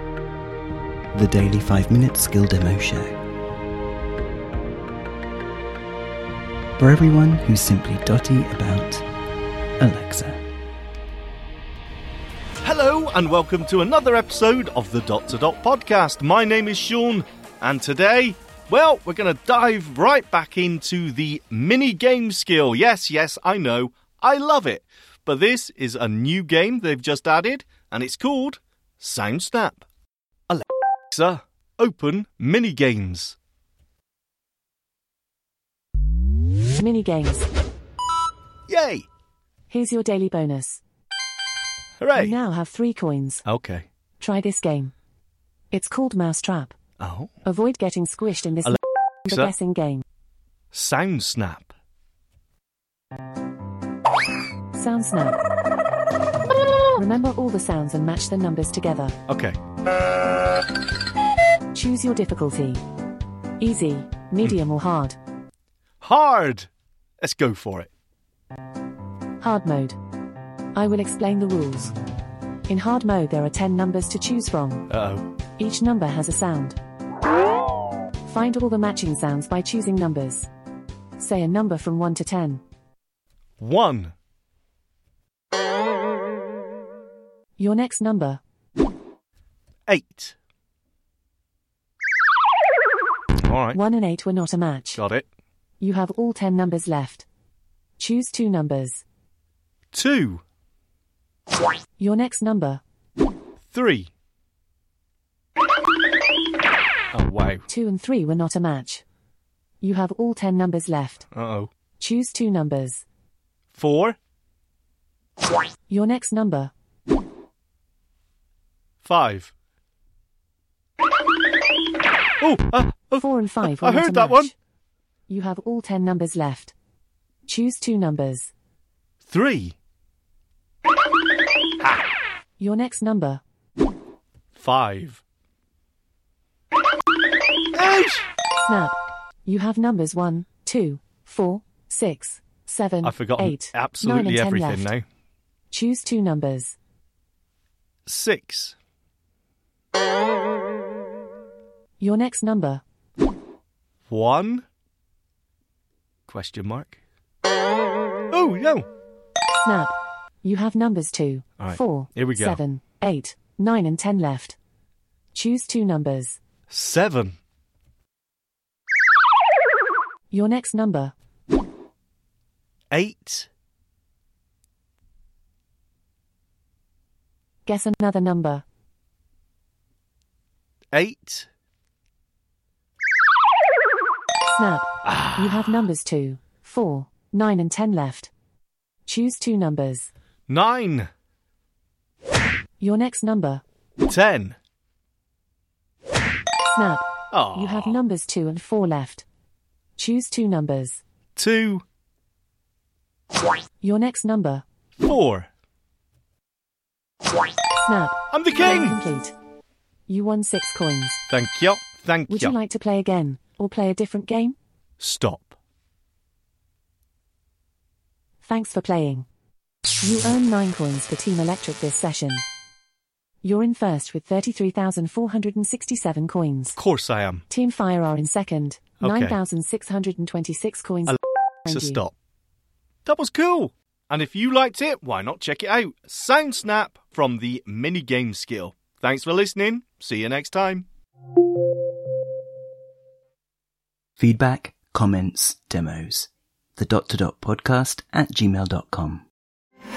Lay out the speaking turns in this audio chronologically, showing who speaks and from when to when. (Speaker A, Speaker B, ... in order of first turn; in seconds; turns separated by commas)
Speaker A: 1.1-3.2, Speaker A: 6.8-9.1, Speaker A: 9.8-10.4, Speaker B: 12.6-29.8, Speaker B: 30.5-33.4, Speaker C: 36.8-37.5, Speaker B: 38.7-39.1, Speaker C: 39.7-40.8, Speaker B: 42.0-42.4, Speaker C: 42.1-43.4, Speaker B: 43.4-43.9, Speaker C: 44.2-44.9, Speaker C: 45.7-46.7, Speaker B: 47.0-47.3, Speaker C: 47.4-50.0, Speaker B: 48.6-49.5, Speaker B: 50.7-51.7, Speaker C: 54.7-55.4, Speaker C: 57.0-59.2, Speaker B: 59.3-59.6, Speaker C: 61.7-62.8, Speaker C: 63.6-65.2, Speaker B: 66.0-66.7, Speaker B: 67.2-67.9, Speaker C: 69.4-70.0, Speaker C: 70.7-71.9, Speaker C: 72.7-74.9, Speaker B: 74.9-75.3, Speaker C: 75.6-76.8, Speaker C: 78.3-80.5, Speaker C: 81.2-82.6, Speaker B: 83.6-84.1, Speaker C: 87.6-88.4, Speaker B: 89.9-90.3, Speaker B: 93.4-93.8, Speaker C: 93.7-95.0, Speaker B: 95.0-95.3, Speaker C: 95.8-97.2, Speaker C: 98.0-99.0, Speaker B: 99.9-100.4, Speaker C: 102.0-102.8, Speaker B: 103.6-104.1, Speaker B: 107.1-107.7, Speaker C: 107.7-109.0, Speaker C: 109.8-111.3, Speaker B: 111.3-111.7, Speaker C: 112.0-113.0, Speaker B: 113.7-114.2, Speaker C: 115.9-116.7, Speaker B: 119.0-119.5, Speaker B: 122.4-124.5, Speaker C: 123.2-124.5, Speaker C: 125.3-126.7, Speaker C: 127.5-128.5, Speaker B: 129.2-129.8, Speaker C: 132.6-133.4, Speaker B: 134.5-135.2, Speaker B: 137.7-138.3, Speaker C: 138.7-144.9, Speaker B: 143.0-145.0, Speaker C: 145.7-146.8, Speaker B: 148.1-148.7, Speaker C: 152.0-152.8, Speaker B: 154.1-154.6, Speaker B: 156.3-157.0, Speaker B: 158.3-158.9, Speaker C: 159.6-164.6, Speaker B: 161.6-162.6, Speaker C: 165.3-166.4, Speaker B: 166.7-167.4, Speaker C: 170.3-171.1, Speaker B: 172.9-173.5, Speaker C: 177.7-178.6, Speaker B: 180.9-181.5, Speaker C: 184.6-188.3, Speaker B: 185.1-185.4, Speaker C: 189.1-190.1, Speaker B: 190.5-191.1, Speaker C: 192.8-193.6, Speaker B: 194.0-194.6, Speaker C: 196.7-199.2, Speaker B: 197.3-198.0, Speaker C: 200.0-201.0, Speaker B: 201.3-201.8, Speaker C: 203.8-204.6, Speaker B: 205.0-205.5, Speaker C: 207.8-209.3, Speaker B: 208.3-209.0, Speaker C: 210.1-211.2, Speaker B: 211.3-212.5, Speaker C: 212.3-214.6, Speaker B: 215.0-215.5, Speaker C: 218.4-219.3, Speaker C: 220.0-222.4, Speaker C: 223.4-226.8, Speaker B: 226.8-227.4, Speaker C: 227.5-232.0, Speaker B: 229.0-229.3, Speaker B: 231.1-232.1, Speaker B: 233.0-240.8, Speaker A: 244.2-249.2